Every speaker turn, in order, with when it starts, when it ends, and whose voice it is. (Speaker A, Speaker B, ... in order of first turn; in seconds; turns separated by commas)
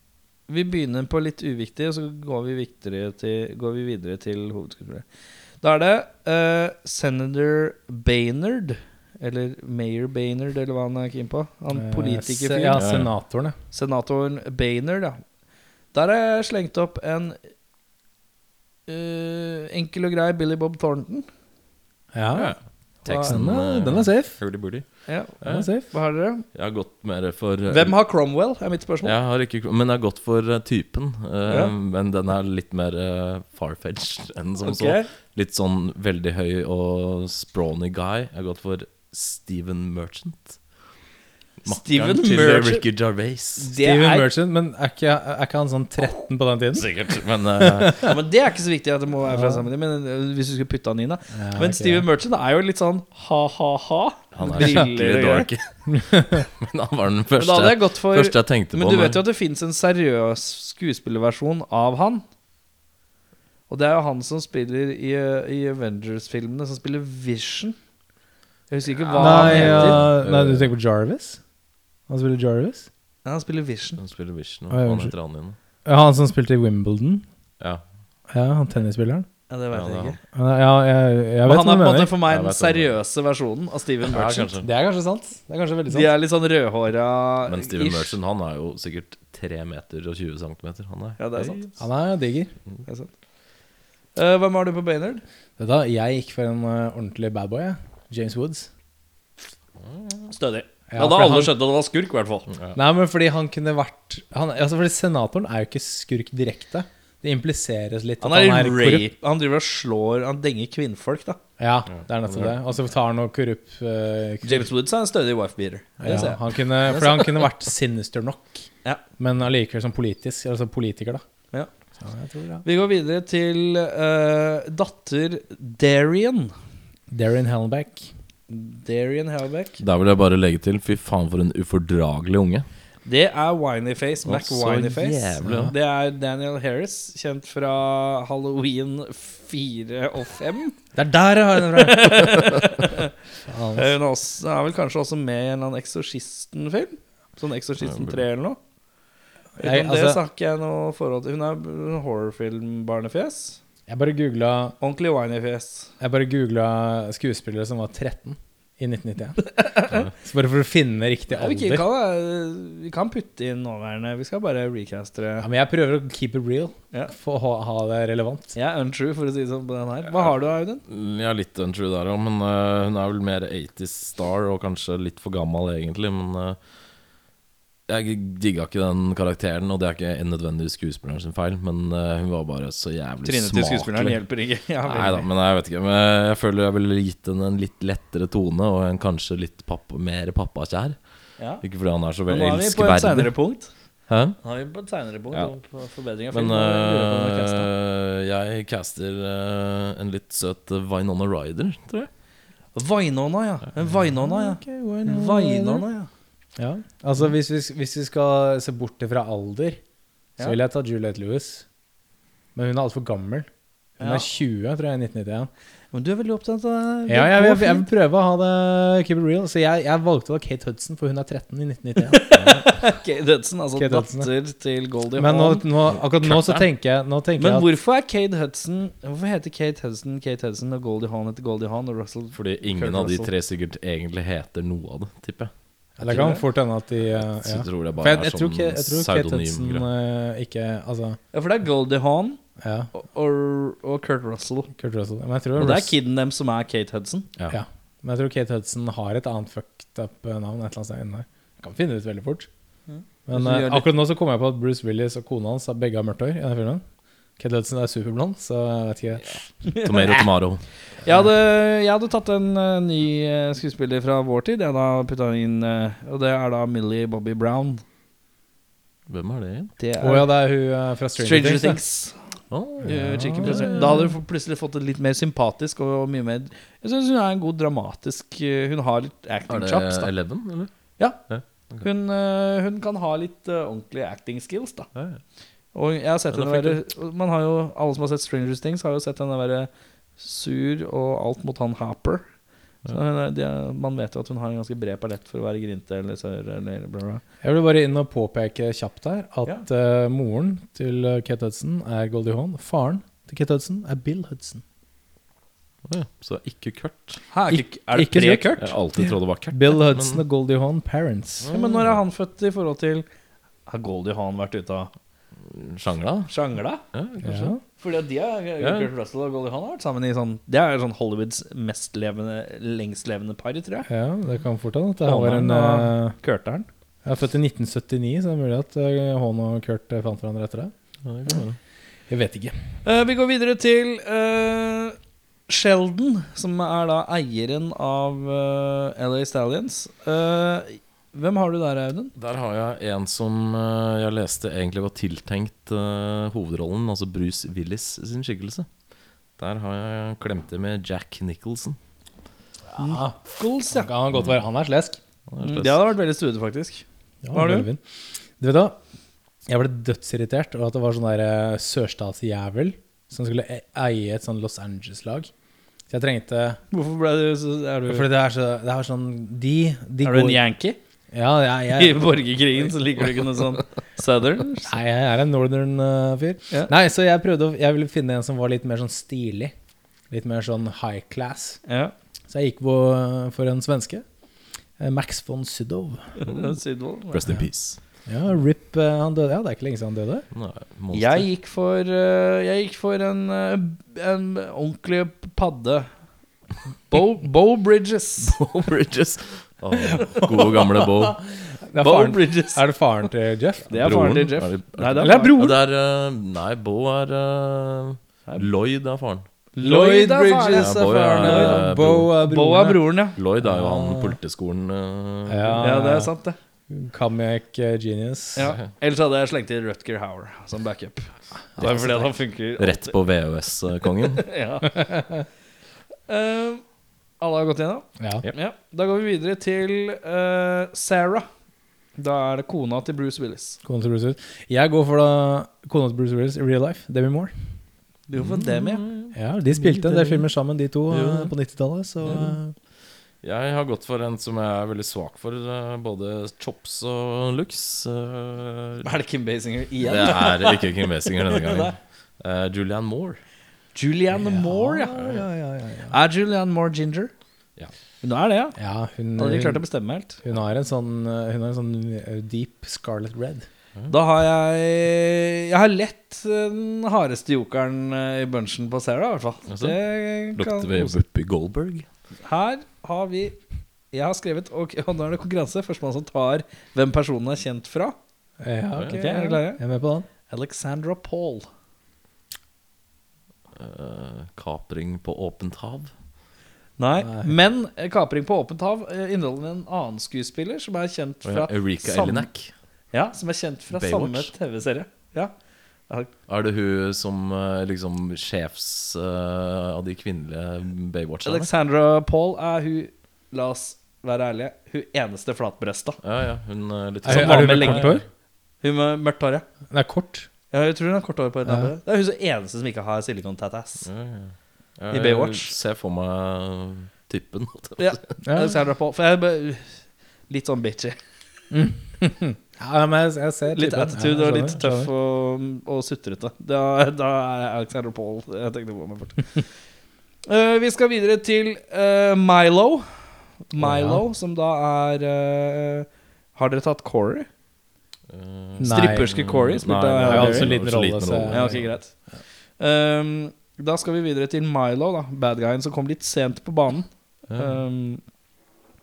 Speaker A: 0.5-5.0, Speaker A: 5.6-12.8, Speaker B: 11.7-13.6, Speaker C: 12.8-13.1, Speaker A: 13.7-15.2, Speaker A: 15.9-17.4, Speaker A: 18.9-21.3, Speaker B: 22.1-22.6, Speaker C: 22.3-25.7, Speaker A: 23.0-23.4, Speaker B: 23.1-24.4, Speaker A: 25.1-26.4, Speaker B: 25.4-25.8, Speaker C: 26.5-27.9, Speaker A: 27.7-29.1, Speaker C: 29.0-40.8, Speaker A: 31.5-31.7, Speaker A: 34.6-35.1, Speaker C: 41.6-43.7, Speaker A: 41.6-42.8, Speaker A: 43.6-44.3, Speaker B: 43.8-46.9, Speaker C: 46.7-48.1, Speaker B: 47.6-48.1, Speaker A: 48.0-55.5, Speaker B: 49.3-49.6, Speaker B: 51.3-52.1, Speaker C: 54.3-59.2, Speaker B: 55.9-56.4, Speaker A: 57.4-62.2, Speaker A: 63.7-67.8, Speaker A: 68.7-70.0, Speaker C: 69.1-70.7, Speaker B: 69.2-71.4, Speaker B: 72.1-72.9, Speaker A: 73.2-74.0, Speaker C: 74.0-75.6, Speaker B: 74.7-75.1, Speaker B: 75.8-77.2, Speaker B: 78.3-79.3, Speaker A: 79.5-80.2, Speaker C: 79.7-80.2, Speaker B: 80.3-82.1, Speaker A: 81.4-84.5, Speaker C: 82.3-83.0, Speaker C: 84.1-84.7, Speaker B: 84.6-86.1, Speaker A: 85.9-88.2, Speaker C: 87.5-91.6, Speaker A: 91.2-91.7, Speaker B: 91.8-92.5, Speaker A: 92.8-93.1, Speaker A: 94.1-95.2, Speaker B: 95.6-98.7, Speaker C: 99.8-100.2, Speaker A: 100.3-102.5, Speaker B: 100.9-101.5, Speaker C: 102.5-102.8, Speaker B: 102.7-109.1, Speaker A: 108.2-111.4, Speaker B: 111.6-114.7, Speaker C: 111.9-112.5, Speaker A: 114.4-117.4, Speaker B: 116.0-121.2, Speaker B: 122.0-122.6, Speaker A: 122.6-126.5, Speaker B: 127.1-128.1, Speaker A: 128.5-129.8, Speaker C: 129.8-132.7, Speaker A: 133.0-140.7, Speaker C: 134.2-135.7, Speaker B: 135.4-135.7, Speaker B: 140.9-142.2, Speaker A: 141.7-143.1, Speaker B: 143.4-143.9, Speaker A: 143.7-148.6, Speaker C: 147.8-148.2, Speaker B: 149.6-150.2, Speaker A: 149.6-153.6, Speaker B: 153.9-154.8, Speaker A: 154.8-155.9, Speaker B: 156.0-161.8, Speaker A: 159.4-160.0, Speaker A: 161.3-165.5, Speaker B: 165.4-168.5, Speaker A: 168.5-170.8, Speaker C: 170.8-176.6, Speaker C: 177.9-184.2, Speaker A: 183.2-185.2, Speaker C: 184.8-193.3, Speaker A: 191.4-191.6, Speaker A: 192.3-193.7, Speaker C: 194.1-194.4, Speaker A: 194.4-197.7, Speaker C: 196.3-202.1, Speaker A: 202.7-206.1, Speaker B: 204.2-205.8, Speaker B: 206.6-209.8, Speaker B: 210.4-211.7, Speaker B: 212.5-215.5, Speaker A: 214.0-214.2, Speaker A: 215.9-217.8, Speaker B: 217.1-222.6, Speaker A: 222.1-225.6, Speaker B: 223.8-224.3, Speaker B: 225.2-227.7, Speaker C: 226.0-226.6, Speaker A: 227.4-233.3, Speaker C: 232.3-236.3, Speaker B: 236.0-241.2, Speaker A: 236.1-236.4, Speaker C: 237.2-239.9, Speaker A: 241.3-242.4, Speaker B: 242.6-242.9, Speaker A: 242.9-244.7, Speaker B: 244.8-245.9, Speaker A: 245.6-247.3, Speaker B: 247.5-252.5, Speaker A: 252.9-253.9, Speaker B: 253.3-256.8, Speaker B: 257.4-259.4, Speaker A: 259.6-260.2, Speaker C: 259.8-260.6, Speaker A: 261.0-267.8, Speaker C: 269.1-269.7, Speaker A: 269.8-270.3, Speaker B: 270.0-271.8, Speaker A: 271.2-272.3, Speaker C: 272.5-274.1, Speaker B: 272.8-274.1, Speaker A: 272.8-280.1, Speaker C: 279.5-281.9, Speaker A: 281.0-281.2, Speaker A: 281.8-284.9, Speaker C: 284.9-285.2, Speaker A: 285.7-292.2, Speaker C: 286.3-286.8, Speaker A: 292.9-297.2, Speaker B: 297.4-304.6, Speaker C: 305.9-307.2, Speaker A: 307.3-308.7, Speaker B: 307.5-311.5, Speaker C: 308.6-310.2, Speaker C: 311.4-312.0, Speaker A: 311.5-313.0, Speaker A: 313.7-314.9, Speaker C: 315.4-316.3, Speaker A: 316.3-316.8, Speaker C: 316.9-317.5, Speaker B: 317.2-317.6, Speaker A: 317.8-323.9, Speaker C: 318.6-318.9, Speaker B: 323.9-326.1, Speaker A: 325.0-326.7, Speaker B: 327.0-330.7, Speaker C: 331.0-331.6, Speaker B: 332.1-332.5, Speaker A: 332.8-334.9, Speaker A: 335.5-342.1, Speaker C: 342.1-348.7, Speaker C: 349.4-351.8, Speaker B: 352.7-353.2, Speaker A: 352.8-353.9, Speaker B: 353.7-355.0, Speaker C: 355.3-355.8, Speaker A: 355.4-357.7, Speaker B: 357.2-357.8, Speaker B: 358.4-358.8, Speaker B: 359.5-365.3, Speaker B: 365.9-366.6, Speaker A: 366.7-368.1, Speaker B: 367.9-370.4, Speaker A: 370.0-370.8, Speaker B: 371.1-372.1, Speaker A: 371.7-374.8, Speaker B: 374.7-379.5, Speaker B: 380.1-381.6, Speaker A: 381.7-381.9, Speaker B: 382.3-384.0, Speaker B: 384.8-386.1, Speaker A: 386.2-387.2, Speaker C: 386.2-386.5, Speaker C: 387.1-387.8, Speaker B: 388.1-390.3, Speaker C: 390.3-391.2, Speaker A: 390.9-395.9, Speaker A: 396.9-398.4, Speaker C: 398.2-401.2, Speaker B: 399.9-403.8, Speaker A: 400.2-400.6, Speaker A: 401.8-402.6, Speaker A: 403.7-405.3, Speaker C: 403.8-409.2, Speaker B: 405.0-405.6, Speaker A: 409.6-413.1, Speaker B: 409.6-412.9, Speaker C: 410.5-412.1, Speaker C: 413.1-415.8, Speaker B: 413.4-414.2, Speaker B: 415.3-416.1, Speaker A: 415.6-416.4, Speaker B: 416.7-418.5, Speaker A: 418.4-422.9, Speaker C: 418.4-418.7, Speaker B: 421.5-422.1, Speaker C: 422.6-424.3, Speaker A: 424.2-424.9, Speaker B: 424.8-425.1, Speaker A: 426.1-426.6, Speaker A: 427.2-431.3, Speaker B: 428.0-428.2, Speaker A: 432.0-433.6, Speaker B: 433.6-437.3, Speaker A: 438.1-438.8, Speaker C: 438.1-440.2, Speaker B: 439.1-442.5, Speaker C: 440.9-441.3, Speaker C: 442.0-442.4, Speaker C: 443.2-448.9, Speaker A: 448.8-451.7, Speaker C: 449.8-453.2, Speaker A: 453.7-455.1, Speaker B: 454.1-455.9, Speaker A: 455.9-457.1, Speaker A: 458.0-458.6, Speaker B: 458.6-459.6, Speaker A: 459.2-460.2, Speaker B: 460.2-463.4, Speaker A: 463.9-471.0, Speaker C: 469.5-469.8, Speaker C: 470.3-471.9, Speaker A: 472.2-473.4, Speaker A: 473.9-477.9, Speaker B: 478.4-480.1, Speaker A: 478.9-479.6, Speaker A: 480.3-481.5, Speaker C: 483.6-485.9, Speaker A: 486.8-492.3, Speaker B: 487.0-487.3, Speaker C: 491.2-492.5, Speaker A: 492.9-495.3, Speaker C: 493.7-494.3, Speaker C: 496.3-501.5, Speaker A: 501.2-506.0, Speaker C: 506.0-508.0, Speaker B: 507.0-508.0, Speaker A: 507.1-508.0, Speaker A: 508.6-509.4, Speaker B: 509.7-510.3, Speaker A: 510.5-513.9, Speaker B: 511.4-511.7, Speaker C: 513.8-518.1, Speaker A: 514.9-515.5, Speaker A: 517.8-521.0, Speaker B: 518.2-518.5, Speaker B: 521.5-524.9, Speaker A: 523.5-529.5, Speaker A: 530.3-537.3, Speaker B: 533.6-534.0, Speaker C: 538.1-541.7, Speaker B: 538.6-539.1, Speaker A: 538.6-540.5, Speaker B: 540.0-542.2, Speaker A: 541.3-541.9, Speaker A: 542.6-548.0, Speaker C: 547.3-547.6